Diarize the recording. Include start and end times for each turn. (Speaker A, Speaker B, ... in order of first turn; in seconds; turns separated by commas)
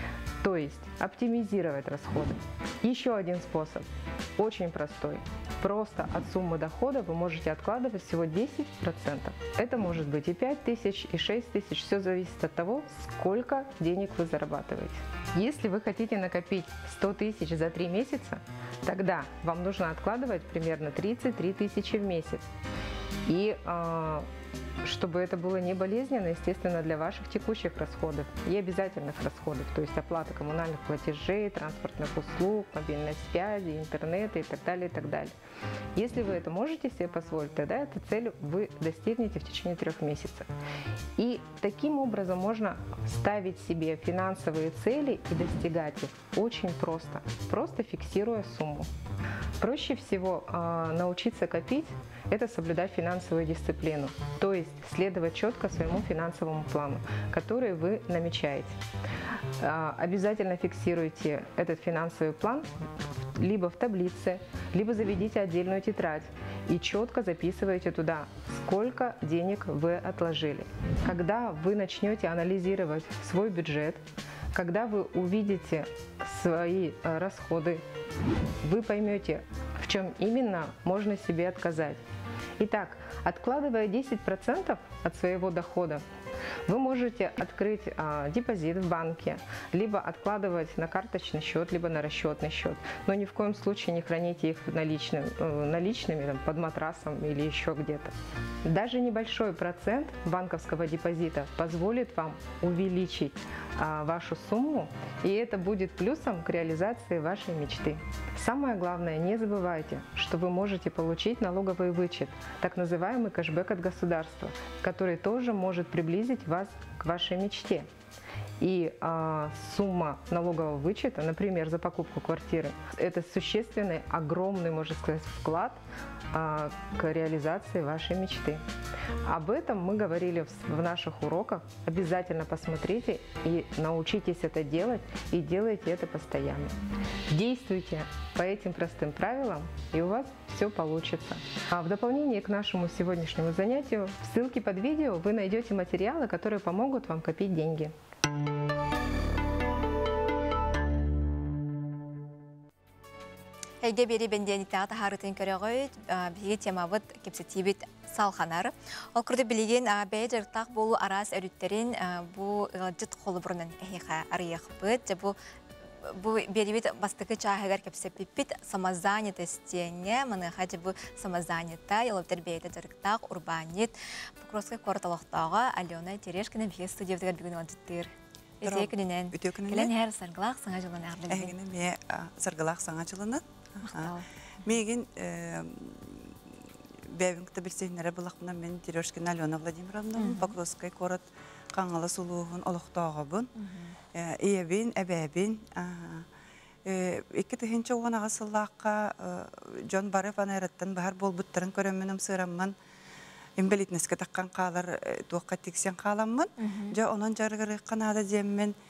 Speaker A: 0.4-22.4, Speaker A: 23.3-24.3, Speaker A: 24.8-35.3, Speaker A: 36.0-40.5, Speaker A: 41.2-48.9, Speaker A: 49.6-58.8, Speaker A: 59.6-62.7, Speaker A: 63.3-77.8, Speaker A: 78.6-82.0, Speaker A: 82.6-86.0, Speaker A: 86.7-98.1, Speaker A: 98.6-117.9, Speaker A: 118.6-125.8, Speaker A: 126.3-128.6, Speaker A: 129.2-136.8, Speaker A: 137.3-147.9, Speaker B: 153.8-165.4, Speaker B: 166.0-178.1, Speaker B: 178.6-181.6, Speaker C: 178.6-179.9, Speaker C: 181.3-186.4, Speaker B: 183.8-184.2, Speaker C: 187.1-193.5, Speaker B: 190.2-190.6, Speaker B: 193.6-193.9, Speaker C: 194.1-196.3, Speaker C: 196.8-202.7, Speaker C: 203.6-208.7, Speaker B: 206.6-207.0